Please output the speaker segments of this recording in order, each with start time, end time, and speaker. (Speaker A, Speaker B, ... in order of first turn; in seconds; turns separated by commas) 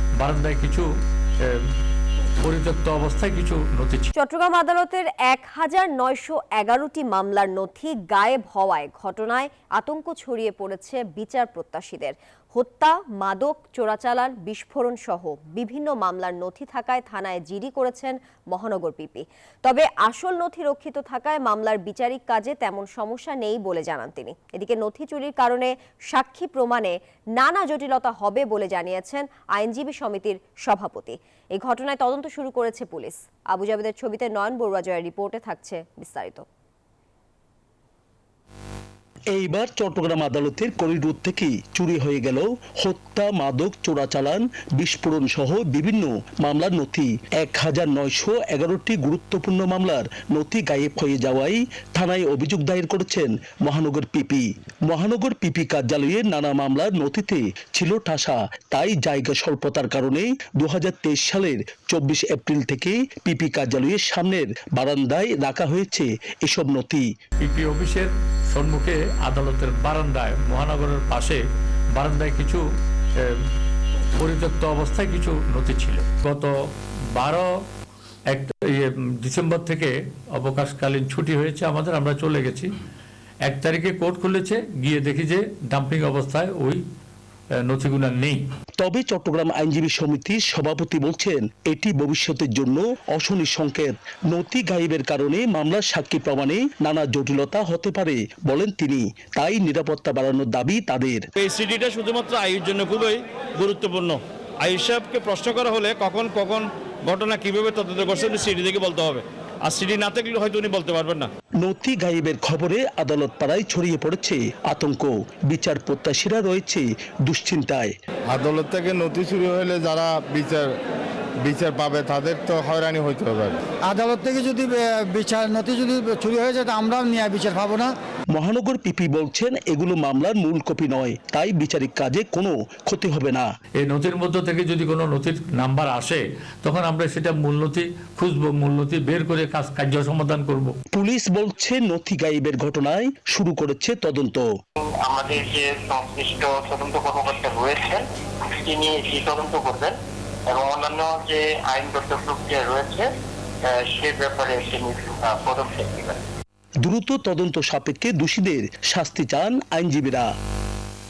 Speaker A: 0.2-0.9, Speaker A: 2.4-4.1, Speaker B: 4.2-36.5, Speaker C: 39.3-67.0, Speaker A: 67.4-71.4, Speaker A: 72.0-72.6, Speaker A: 74.2-76.5, Speaker A: 77.2-77.5, Speaker A: 78.3-82.7, Speaker A: 83.4-86.8, Speaker A: 87.6-88.4, Speaker C: 88.8-101.2, Speaker D: 101.4-111.3, Speaker C: 111.6-117.9, Speaker E: 118.3-120.8, Speaker E: 121.4-123.6, Speaker F: 123.9-127.9, Speaker C: 128.3-133.5, Speaker A: 133.8-140.7, Speaker C: 140.9-144.5, Speaker G: 144.8-149.9, Speaker G: 150.5-153.1, Speaker G: 153.7-156.2, Speaker C: 156.8-160.3